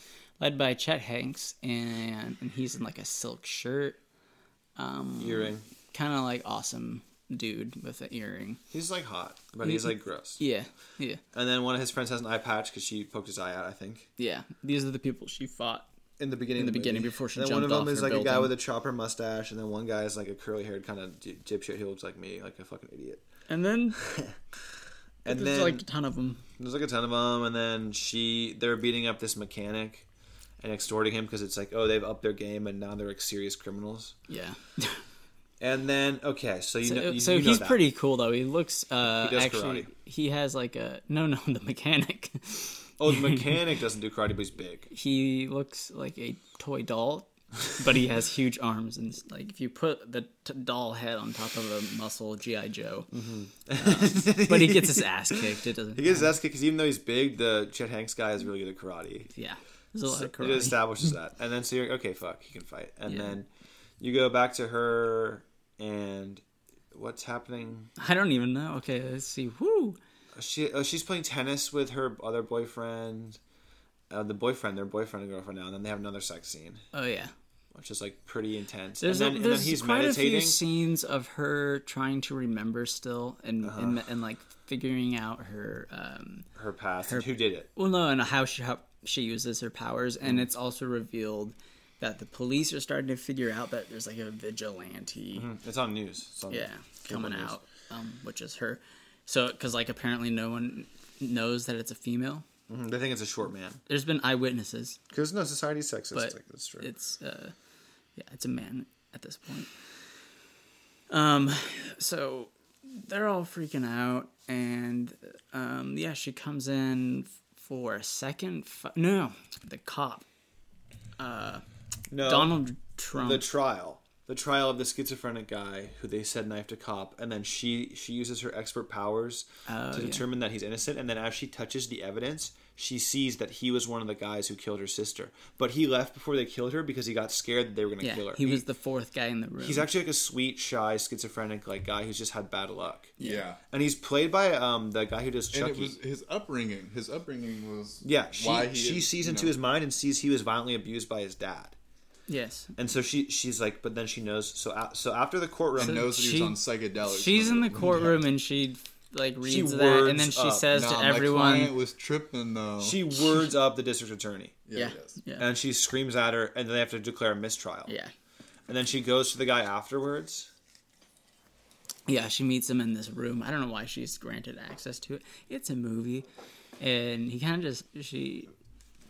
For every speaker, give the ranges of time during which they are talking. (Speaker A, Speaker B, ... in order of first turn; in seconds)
Speaker A: 0.4-4.0, 4.8-8.6, 9.6-11.2, 14.2-15.9, 16.6-18.5, 23.5-24.0, 25.2-26.4, 34.3-35.0, 36.8-43.6, 44.9-53.1, 53.8-56.4, 59.3-60.8, 63.1-63.4, 68.0-70.0, 76.9-77.3, 79.0-86.5, 87.1-95.5, 96.5-102.5, 103.9-105.0, 106.1-107.5, 108.2-109.7, 111.1-120.2, 121.2-121.7, 122.2-123.4, 129.7-130.3, 138.0-139.9, 152.3-152.7, 155.8-161.7, 164.7-165.5, 167.9-168.1, 172.1-176.3, 176.8-178.5
Speaker B: 5.2-5.7, 8.7-10.4, 11.3-14.1, 16.2-23.2, 24.0-24.4, 25.2-25.8, 26.6-30.1, 30.6-34.1, 35.6-37.8, 39.0-39.9, 43.0-44.9, 53.1-59.3, 60.1-63.5, 64.0-67.9, 70.3-73.4, 74.1-76.8, 77.7-80.6, 83.6-84.0, 86.6-87.7, 95.3-97.6, 102.7-103.8, 105.1-106.9, 122.1-122.6, 123.1-138.6, 139.6-143.2, 143.7-146.0, 148.0-151.8, 152.8-156.1, 159.4-160.7, 162.8-164.6, 165.4-167.9, 168.7-170.5
Speaker C: 143.2-143.6, 145.5-149.5, 155.8-158.2, 160.7-163.1, 164.7-165.2